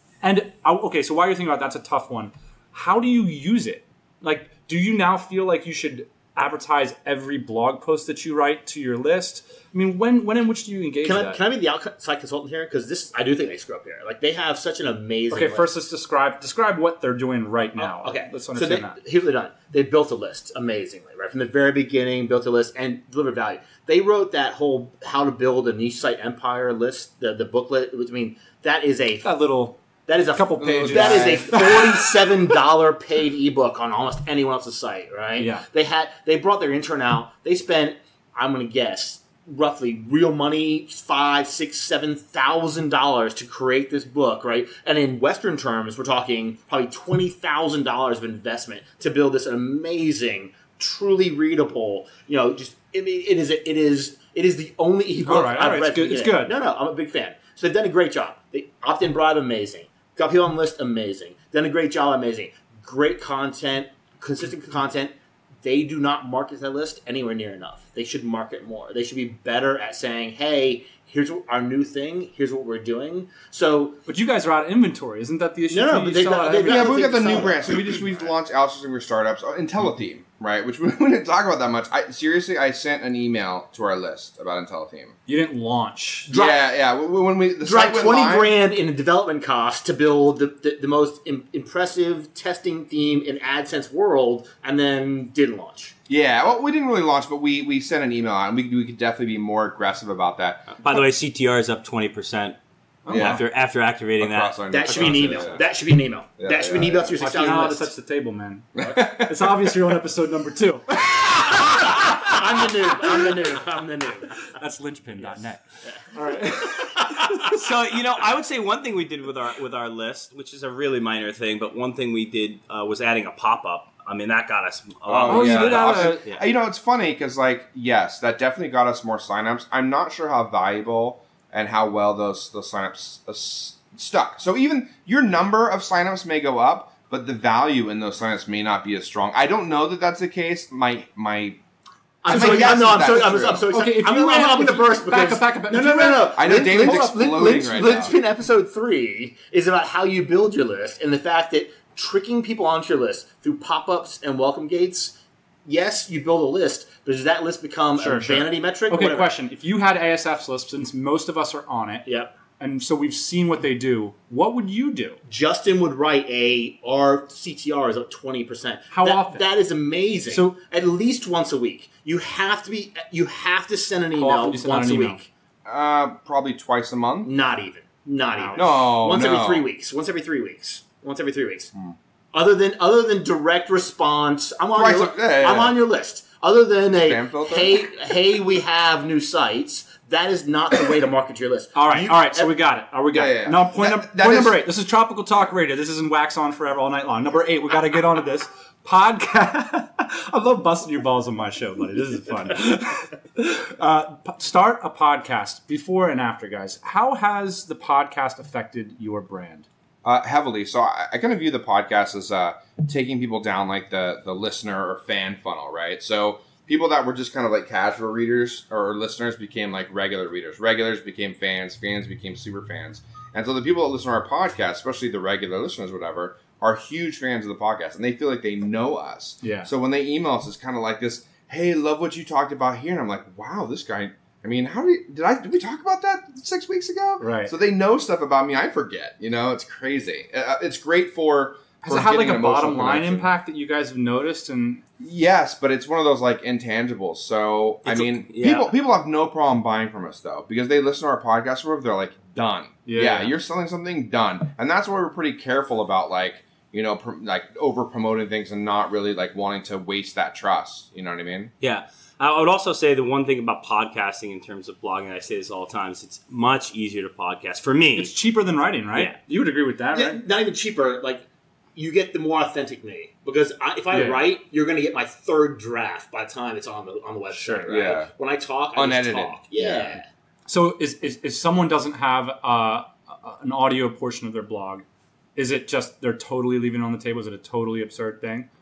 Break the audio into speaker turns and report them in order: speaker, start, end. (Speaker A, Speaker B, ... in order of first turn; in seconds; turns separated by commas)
Speaker A: 0.2-11.4, Speaker B: 11.0-15.7, Speaker A: 15.3-19.0, Speaker B: 17.8-29.4, Speaker A: 29.2-29.8, Speaker B: 30.1-74.0, Speaker A: 30.3-32.2, Speaker C: 30.6-31.6, Speaker A: 35.4-35.6, Speaker A: 55.2-56.5, Speaker A: 74.0-77.4, Speaker B: 75.7-78.3, Speaker C: 76.7-85.2, Speaker A: 85.3-86.3, Speaker B: 86.3-86.6, Speaker C: 86.3-88.5, Speaker B: 87.6-96.0, Speaker C: 96.1-100.7, Speaker D: 100.8-102.6, Speaker A: 103.0-103.4, Speaker C: 103.1-103.4, Speaker D: 103.1-105.4, Speaker C: 104.2-105.6, Speaker B: 104.7-107.9, Speaker C: 106.4-107.3, Speaker A: 107.2-111.0, Speaker C: 108.8-109.7, Speaker C: 111.1-111.6, Speaker B: 112.2-114.5, Speaker A: 114.4-117.6, Speaker B: 115.2-116.0, Speaker D: 117.4-126.5, Speaker C: 125.0-141.6, Speaker A: 125.3-126.2, Speaker B: 142.2-159.3, Speaker C: 142.2-143.7, Speaker A: 142.3-143.1, Speaker A: 143.7-147.4, Speaker C: 146.3-148.2, Speaker A: 158.0-165.2, Speaker B: 162.1-162.3, Speaker B: 165.2-175.3, Speaker A: 168.9-169.4, Speaker A: 170.3-170.5, Speaker A: 174.1-175.2, Speaker C: 175.6-177.3, Speaker B: 177.2-181.7, Speaker A: 178.3-178.7, Speaker C: 178.5-179.7, Speaker B: 182.3-192.5, Speaker C: 184.7-185.8, Speaker C: 186.9-187.8, Speaker A: 191.7-209.7, Speaker C: 193.1-194.7, Speaker C: 210.0-243.3, Speaker A: 229.4-229.7, Speaker A: 237.2-237.5, Speaker A: 241.8-244.8, Speaker C: 245.0-261.5, Speaker D: 247.8-248.7, Speaker A: 252.8-253.3, Speaker D: 261.6-268.1, Speaker A: 267.9-270.2, Speaker B: 269.9-280.1, Speaker A: 273.9-274.2, Speaker A: 277.3-277.7, Speaker C: 277.6-278.1, Speaker C: 278.7-279.4, Speaker A: 279.6-284.8, Speaker A: 285.4-288.5